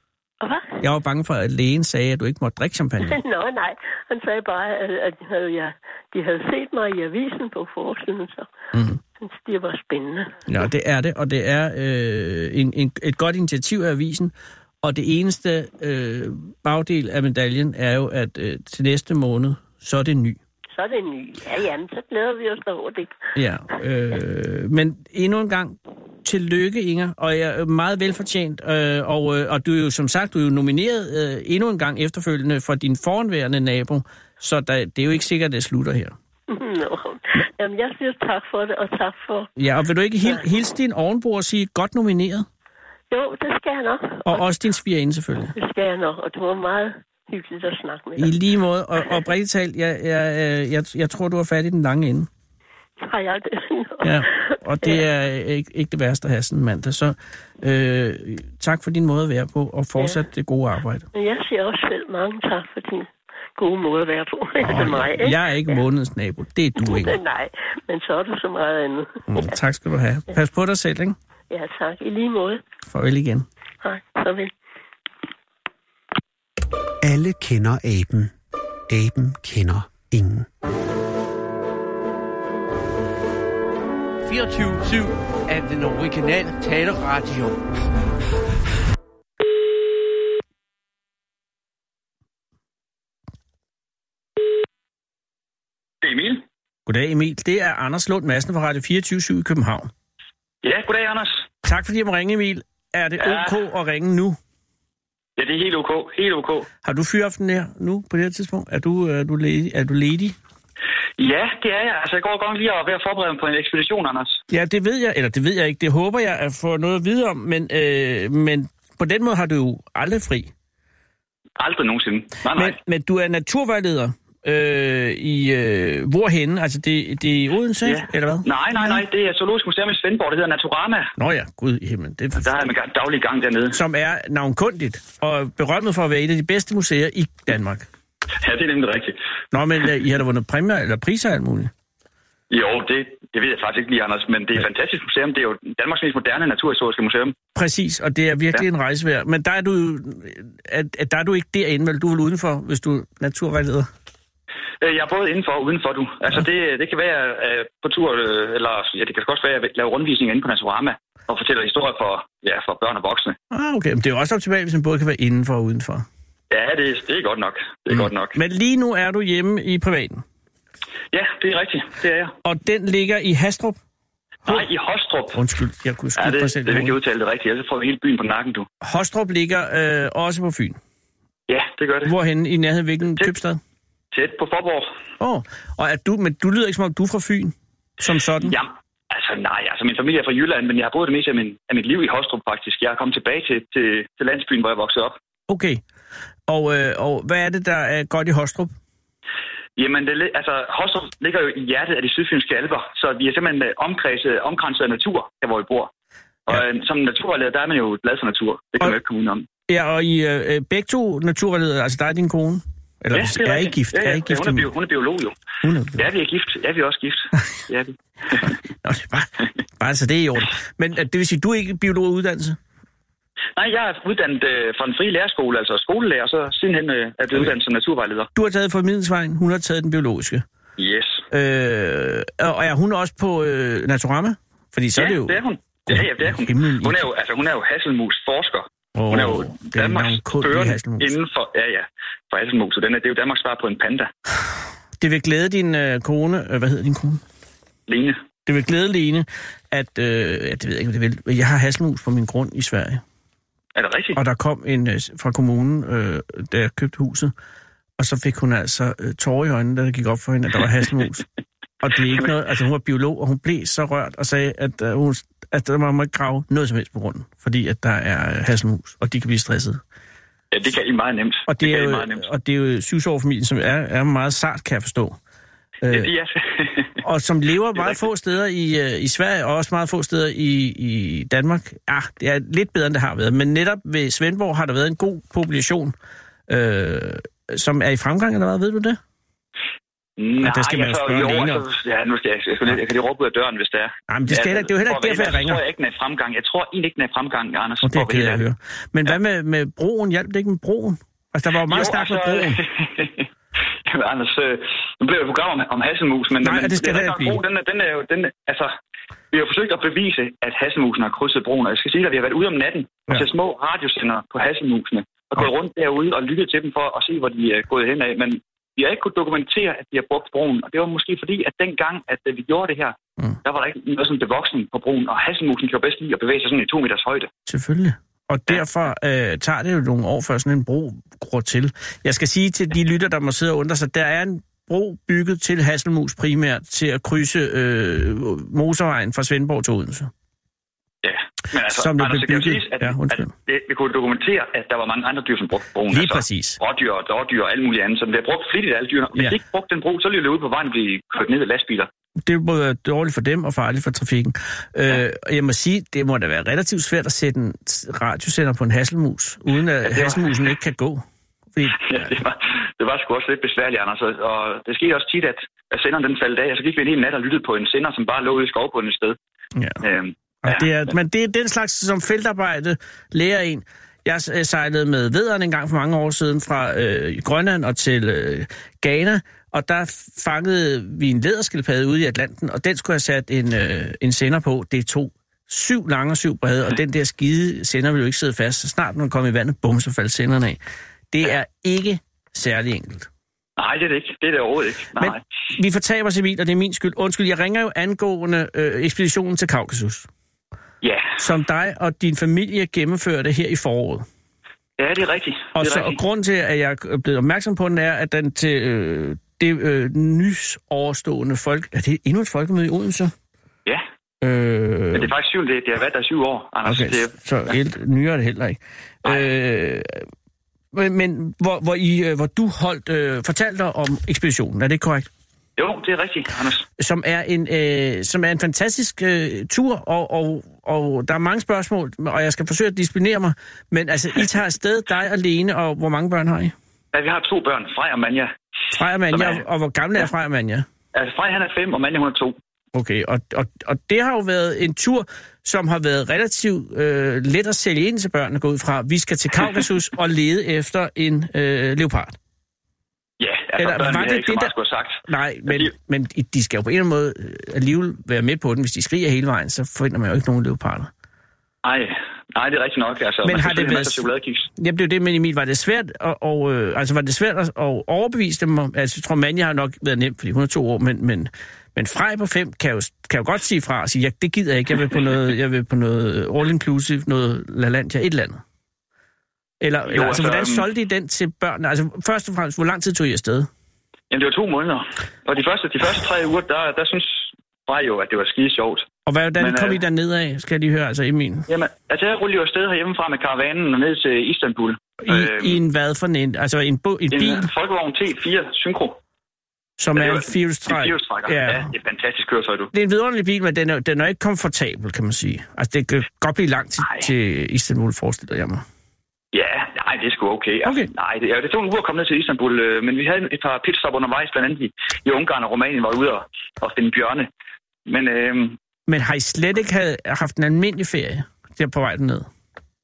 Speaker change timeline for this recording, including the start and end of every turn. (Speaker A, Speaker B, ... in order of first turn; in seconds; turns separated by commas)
Speaker A: 0.4-0.8, Speaker B: 0.8-3.2, Speaker A: 3.0-8.5, Speaker B: 8.7-9.0, Speaker A: 9.2-10.5, Speaker B: 10.5-20.4, Speaker A: 20.7-23.2, Speaker B: 23.3-36.1, Speaker A: 36.5-39.5, Speaker B: 39.6-42.5, Speaker A: 43.1-44.4, Speaker B: 44.2-45.5, Speaker A: 45.5-48.4, Speaker B: 48.2-52.3, Speaker A: 53.0-55.0, Speaker B: 54.0-61.0, Speaker A: 61.1-65.8, Speaker B: 64.6-67.2, Speaker A: 66.8-69.5, Speaker B: 69.3-71.2, Speaker A: 71.5-72.6, Speaker B: 72.9-73.5, Speaker A: 73.8-74.5, Speaker C: 77.0-78.3, Speaker C: 78.9-80.5, Speaker D: 84.3-87.6, Speaker E: 96.0-96.4, Speaker B: 96.8-99.9, Speaker E: 100.6-101.5, Speaker B: 101.6-104.4, Speaker E: 103.2-103.5, Speaker E: 105.4-106.7, Speaker B: 106.8-110.3, Speaker E: 111.2-114.4, Speaker B: 114.5-120.5, Speaker E: 121.6-122.8, Speaker B: 122.5-128.9, Speaker E: 127.8-131.1, Speaker B: 131.2-132.5, Speaker E: 132.4-133.8, Speaker B: 133.7-137.9, Speaker E: 138.4-139.2, Speaker B: 139.5-141.7, Speaker E: 142.5-147.3, Speaker B: 147.5-153.9, Speaker E: 154.8-163.3, Speaker B: 163.5-166.1, Speaker E: 166.5-168.3, Speaker B: 167.9-170.2, Speaker E: 171.1-172.3, Speaker B: 172.4-173.8, Speaker E: 174.4-175.4, Speaker B: 175.3-176.9, Speaker E: 176.2-178.7, Speaker B: 178.8-180.8, Speaker E: 181.5-182.1, Speaker B: 182.0-183.6, Speaker E: 184.1-184.9, Speaker B: 185.2-188.6, Speaker E: 188.4-195.2, Speaker B: 195.5-195.8, Speaker B: 196.5-198.7, Speaker E: 199.8-205.9, Speaker E: 206.5-209.5, Speaker B: 209.7-214.7, Speaker E: 213.1-215.4, Speaker B: 215.6-216.0, Speaker E: 215.9-218.6, Speaker B: 218.8-222.6, Speaker E: 223.6-228.3, Speaker B: 228.3-230.4, Speaker E: 230.8-231.2, Speaker B: 231.3-235.4, Speaker E: 234.9-244.1, Speaker B: 235.9-237.1, Speaker B: 238.9-241.1, Speaker B: 245.0-247.2, Speaker E: 247.9-248.2, Speaker B: 248.4-253.0, Speaker E: 253.7-254.2, Speaker B: 254.1-257.3, Speaker B: 258.0-261.2, Speaker B: 261.8-269.8, Speaker E: 270.5-272.3, Speaker B: 271.5-275.1, Speaker B: 275.8-276.1, Speaker E: 275.9-277.0, Speaker B: 277.0-285.9, Speaker B: 286.5-289.0, Speaker E: 290.2-298.4, Speaker B: 290.4-291.6, Speaker B: 294.1-295.6, Speaker B: 297.8-302.6, Speaker E: 301.7-303.3, Speaker E: 303.9-308.8, Speaker B: 306.4-307.4, Speaker E: 309.3-327.3, Speaker B: 327.5-340.1, Speaker E: 341.0-351.9, Speaker B: 341.7-343.3, Speaker B: 345.9-346.6, Speaker B: 352.2-361.0, Speaker E: 359.8-360.4, Speaker B: 361.6-362.1, Speaker E: 361.7-369.2, Speaker B: 369.6-369.8, Speaker E: 369.8-370.9, Speaker B: 370.4-390.6, Speaker B: 391.1-393.1, Speaker E: 393.6-395.2, Speaker B: 395.0-400.1, Speaker E: 400.8-401.2, Speaker B: 401.2-404.0, Speaker E: 404.8-406.0, Speaker B: 405.5-413.1, Speaker B: 414.2-415.1, Speaker E: 414.9-417.5, Speaker B: 416.6-420.1, Speaker B: 420.7-425.1, Speaker E: 425.6-426.6, Speaker B: 426.8-436.5, Speaker E: 436.9-438.3, Speaker B: 438.7-440.6, Speaker E: 439.1-439.4, Speaker E: 440.9-442.4, Speaker B: 442.7-452.1, Speaker E: 453.2-455.7, Speaker B: 453.6-454.5, Speaker B: 455.1-460.9, Speaker E: 461.6-464.5, Speaker B: 463.2-464.1, Speaker B: 464.6-478.4, Speaker B: 479.6-483.5, Speaker E: 479.9-480.7, Speaker E: 484.1-488.9, Speaker B: 489.1-491.5, Speaker E: 489.4-489.8, Speaker E: 491.5-495.6, Speaker B: 495.0-497.5, Speaker E: 497.1-499.0, Speaker B: 499.8-501.7, Speaker E: 499.9-502.7, Speaker B: 502.7-508.6, Speaker E: 506.8-507.1, Speaker E: 509.3-517.3, Speaker E: 517.9-518.6, Speaker B: 518.9-522.3